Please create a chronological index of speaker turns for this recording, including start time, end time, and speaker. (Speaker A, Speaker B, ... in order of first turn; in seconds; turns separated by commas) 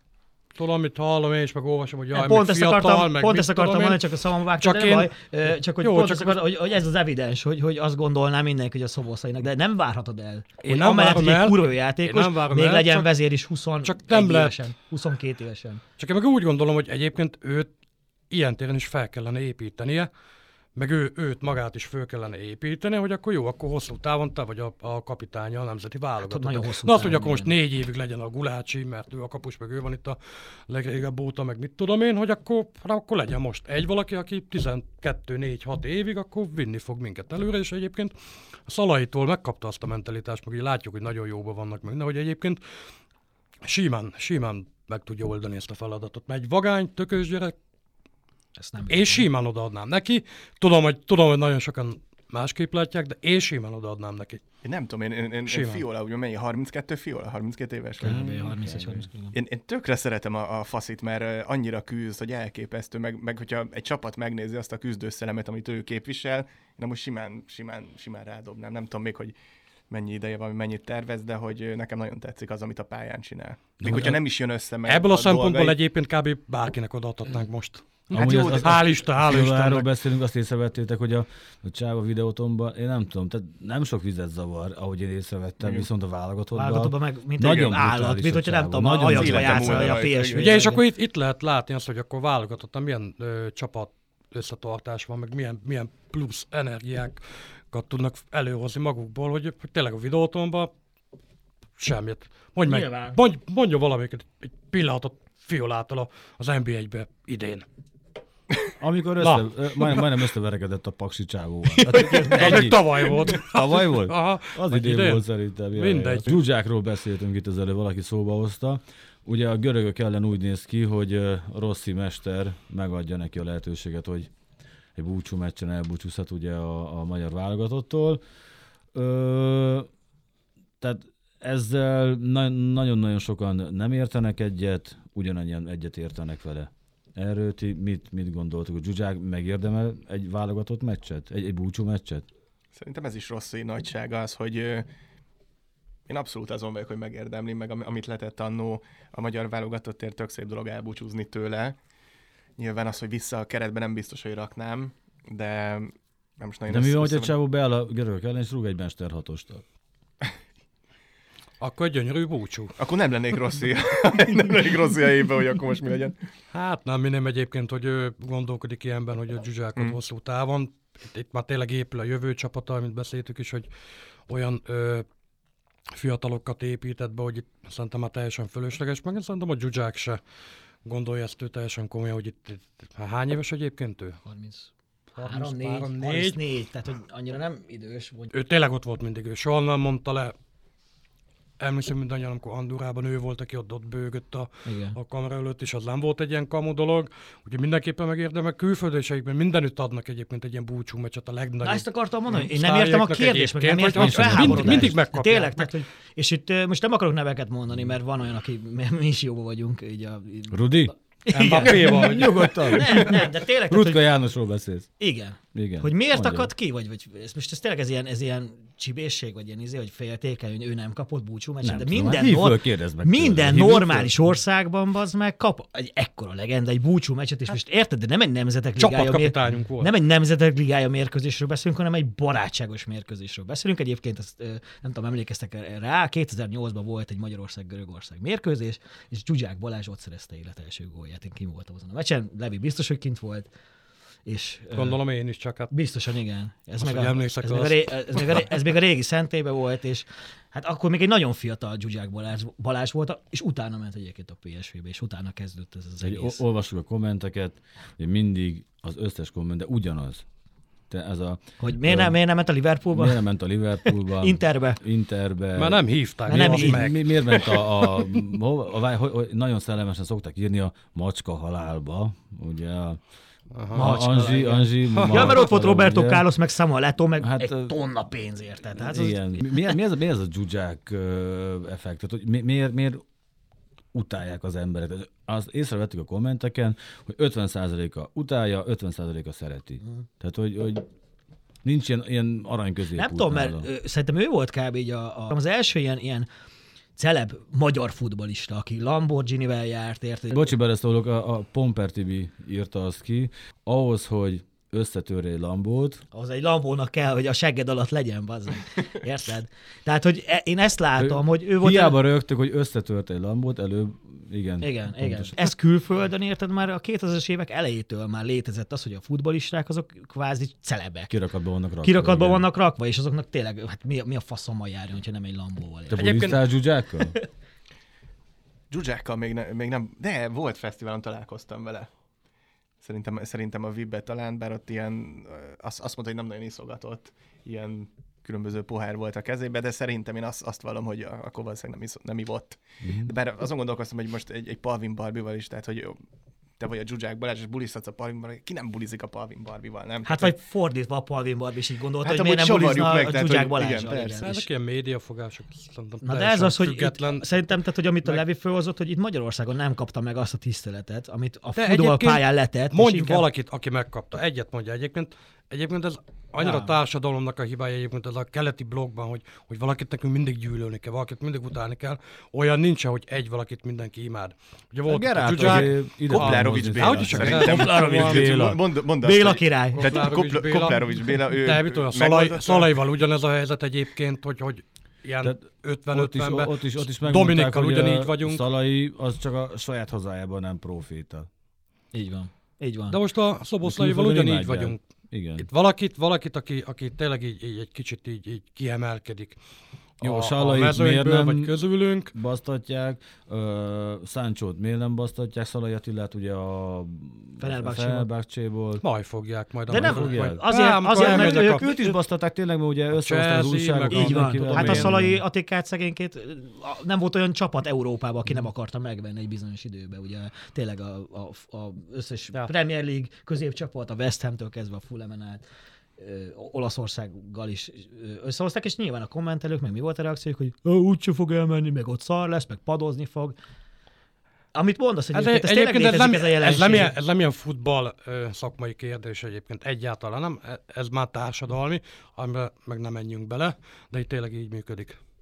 Speaker A: 0.5-5.1, Speaker B: 2.1-15.8, Speaker A: 5.8-6.4, Speaker A: 10.6-13.1, Speaker A: 13.8-14.6, Speaker A: 16.0-17.7, Speaker A: 18.3-20.1, Speaker A: 20.7-38.1, Speaker B: 26.2-27.5, Speaker A: 38.7-42.6, Speaker A: 43.6-47.5, Speaker B: 48.6-49.2, Speaker A: 48.9-54.4, Speaker C: 54.6-58.2, Speaker A: 55.5-55.8, Speaker B: 58.0-59.3, Speaker D: 58.0-59.1, Speaker C: 59.3-69.3, Speaker C: 69.9-75.8, Speaker D: 73.8-74.2, Speaker A: 74.8-79.9, Speaker C: 78.1-78.7, Speaker D: 78.1-90.0, Speaker C: 85.6-85.9, Speaker B: 86.5-90.8, Speaker C: 89.1-90.7, Speaker A: 90.3-100.7, Speaker A: 101.8-107.7, Speaker B: 102.7-103.2, Speaker D: 108.8-124.3, Speaker A: 109.2-110.0, Speaker A: 111.9-116.4, Speaker B: 111.9-112.6, Speaker D: 125.0-128.2, Speaker D: 128.9-129.9, Speaker D: 130.8-142.2, Speaker C: 142.7-144.9, Speaker C: 146.1-151.8, Speaker C: 152.6-157.3, Speaker D: 156.7-159.6, Speaker A: 161.6-162.7, Speaker C: 162.8-166.2, Speaker A: 166.5-173.7, Speaker A: 174.3-175.1, Speaker A: 175.9-180.2, Speaker A: 180.8-184.2, Speaker B: 184.2-188.3, Speaker A: 185.2-186.4, Speaker A: 188.3-190.3, Speaker A: 191.6-205.7, Speaker B: 194.7-194.9, Speaker B: 201.6-214.1, Speaker D: 203.9-204.9, Speaker D: 210.5-210.9, Speaker A: 211.3-213.0, Speaker D: 211.6-214.9, Speaker B: 215.0-243.5, Speaker D: 215.5-216.5, Speaker D: 221.6-224.1, Speaker A: 228.8-229.9, Speaker B: 244.2-245.0, Speaker A: 244.7-245.7, Speaker B: 245.7-256.4, Speaker A: 246.8-248.4, Speaker D: 256.0-260.2, Speaker D: 260.9-262.2, Speaker B: 261.6-263.2, Speaker D: 262.9-273.0, Speaker B: 263.9-264.8, Speaker A: 265.6-267.7, Speaker B: 266.3-266.9, Speaker A: 273.5-273.9, Speaker D: 273.7-276.2, Speaker B: 273.7-279.8, Speaker A: 274.9-275.5, Speaker D: 277.2-277.7, Speaker D: 278.8-283.0, Speaker D: 283.9-290.9, Speaker D: 291.6-293.7, Speaker B: 292.9-296.3, Speaker B: 296.9-300.5, Speaker D: 300.3-306.0, Speaker B: 306.1-312.0, Speaker D: 311.0-315.3, Speaker B: 314.6-321.1, Speaker D: 321.1-322.4, Speaker B: 321.8-326.2, Speaker D: 325.9-327.1, Speaker A: 325.9-326.4, Speaker C: 328.7-331.9, Speaker C: 332.8-346.0, Speaker D: 342.8-343.1, Speaker C: 346.6-350.3, Speaker B: 350.1-354.4, Speaker C: 352.0-354.3, Speaker A: 354.2-357.3, Speaker B: 356.0-363.2, Speaker A: 361.5-378.3, Speaker B: 366.4-366.7, Speaker D: 374.9-378.6, Speaker C: 375.4-382.7, Speaker B: 377.6-378.2, Speaker B: 379.0-379.9, Speaker A: 379.7-388.4, Speaker D: 385.2-391.3, Speaker B: 391.9-393.0, Speaker A: 392.9-394.8, Speaker D: 393.6-395.4, Speaker A: 395.4-399.4, Speaker A: 400.0-402.1, Speaker D: 400.0-408.8, Speaker B: 407.4-408.1, Speaker A: 408.8-411.7, Speaker B: 409.7-411.9, Speaker D: 409.7-415.2, Speaker A: 413.0-415.0, Speaker B: 413.9-425.4, Speaker B: 426.0-433.4, Speaker B: 434.5-436.9, Speaker A: 435.1-445.0